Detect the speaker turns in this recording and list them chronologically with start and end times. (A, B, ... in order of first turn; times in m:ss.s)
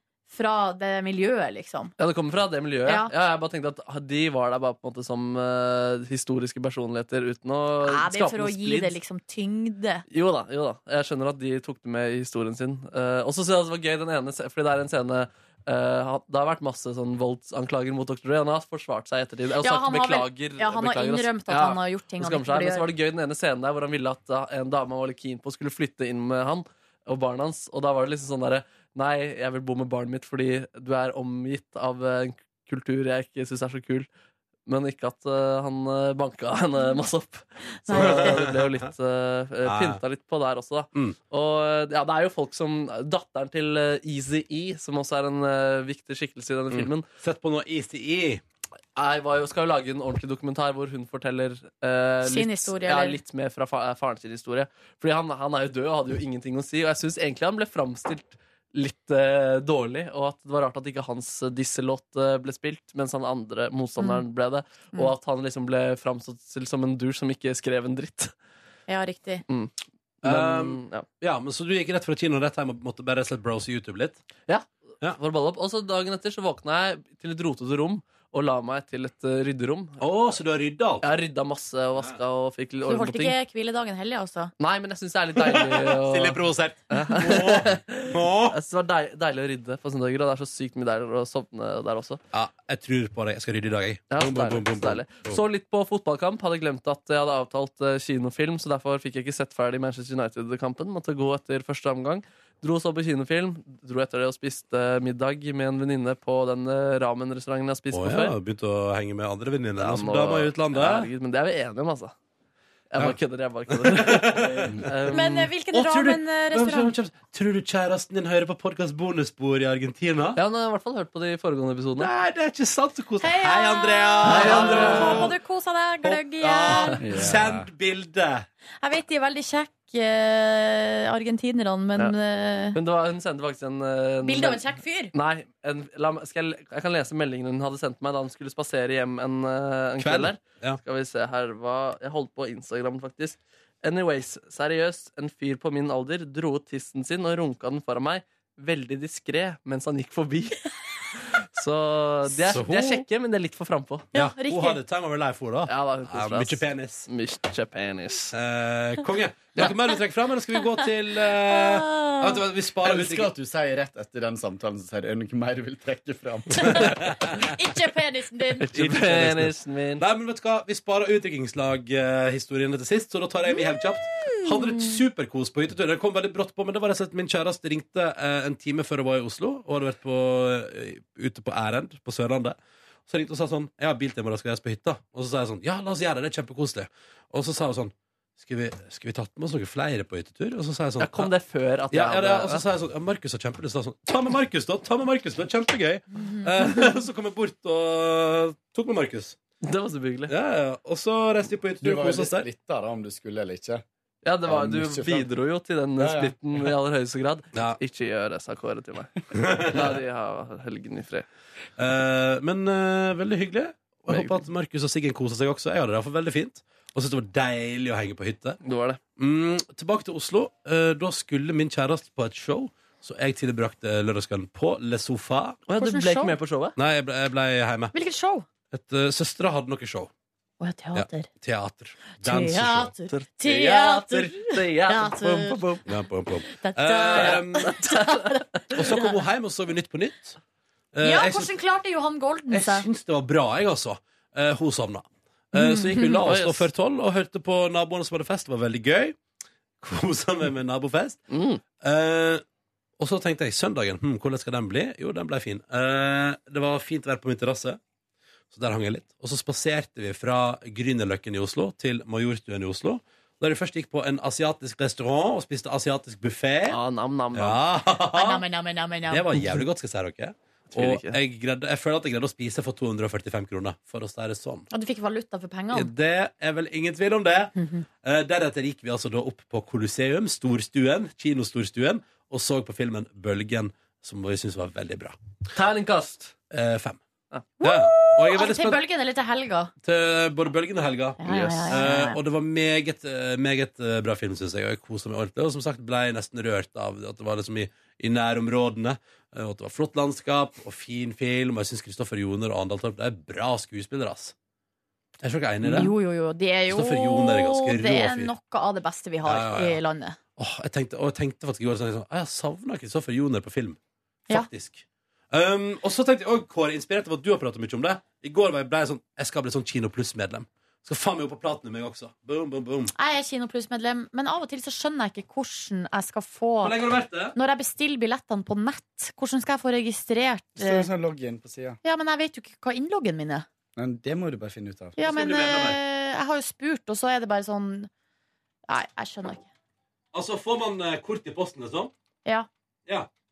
0:00.3-0:01.9 A
0:02.0-0:09.0 B
0:02.8-0:03.1 A
0:07.8-0:10.0 A
0:10.1-0:34.1 B
0:19.6-0:22.9 A
0:34.7-0:47.0 B
0:37.9-0:38.4 A
0:37.9-0:38.7 C
0:39.6-0:40.0 C
0:46.7-0:48.4 C
0:49.0-1:08.3 B
0:52.2-0:53.2 A
1:08.9-1:09.4 A
1:09.5-1:11.0 B
1:10.2-1:14.2 C
1:14.5-1:20.0 B
1:20.0-1:21.0 C
1:21.0-1:23.3 B
1:22.9-1:24.5 A
1:24.6-1:32.2 B
1:25.4-1:28.6 C
1:32.3-1:35.4 C
1:34.1-1:48.3 B
1:47.9-1:51.1 C
1:49.8-1:52.1 B
1:52.9-1:55.5 B
1:53.7-1:54.8 C
1:55.1-1:56.9 A
1:55.7-2:00.4 C
2:00.4-2:02.1 B
2:02.0-2:05.3 C
2:03.2-2:07.0 A
2:04.2-2:05.3 B
2:04.4-2:05.2 D
2:06.1-2:08.5 C
2:07.0-2:07.7 D
2:08.8-2:12.8 A
2:12.7-2:34.1 B
2:14.2-2:15.1 A
2:20.0-2:20.8 C
2:32.4-2:33.0 C
2:34.1-2:37.1 C
2:34.1-2:34.8 A
2:35.7-2:38.3 B
2:38.3-2:43.3 C
2:41.4-2:42.4 A
2:42.8-2:47.2 D
2:46.6-2:48.6 A
2:46.6-2:47.5 C
2:48.6-2:50.0 B
2:48.7-3:11.3 C
2:54.3-2:54.9 A
3:11.0-3:12.6 B
3:11.9-3:19.4 C
3:19.6-3:20.3 B
3:20.3-3:22.4 C
3:21.8-3:23.8 D
3:24.2-3:31.3 B
3:24.4-3:25.3 D
3:26.0-3:26.3 D
3:29.3-3:29.9 C
3:31.8-3:38.6 C
3:34.1-3:34.4 B
3:38.6-3:39.0 B
3:39.2-3:45.6 C
3:45.7-3:46.8 B
3:45.8-3:46.3 A
3:46.8-3:47.9 C
3:47.9-3:48.4 A
3:48.7-3:50.1 C
3:50.6-3:51.3 A
3:50.9-3:53.0 C
3:52.2-3:55.8 A
3:53.3-3:55.8 B
3:55.8-3:57.8 C
3:56.5-3:59.1 A
3:57.1-3:58.6 B
3:58.7-4:00.4 C
4:00.9-4:01.5 C
4:01.0-4:02.9 A
4:02.5-4:09.2 C
4:05.5-4:06.2 A
4:06.2-4:06.7 B
4:09.8-4:11.2 C
4:11.3-4:11.6 B
4:11.8-4:12.4 C
4:13.0-4:17.8 C
4:18.5-4:26.8 C
4:26.7-4:27.6 B
4:27.3-4:28.4 C
4:28.1-4:29.5 A
4:29.1-4:34.7 C
4:30.7-4:31.2 B
4:34.7-4:35.9 A
4:35.7-4:45.2 C
4:37.6-4:37.8 A
4:45.5-4:46.3 B
4:46.5-4:47.0 C
4:47.6-4:49.7 A
4:47.6-4:48.8 C
4:49.8-5:04.3 C
4:51.2-4:52.2 A
4:51.2-4:51.8 B
5:05.2-5:05.9 C
5:05.6-5:10.2 A
5:06.7-5:08.3 C
5:09.2-5:09.8 C
5:10.4-5:13.8 C
5:14.3-5:22.9 C
5:23.0-5:26.8 A
5:26.6-5:27.4 C
5:27.3-5:30.9 A
5:30.6-5:31.8 D
5:31.8-5:33.4 A
5:33.8-5:35.0 D
5:35.0-5:37.9 A
5:35.0-5:35.8 C
5:38.7-5:39.5 A
5:40.1-5:41.9 C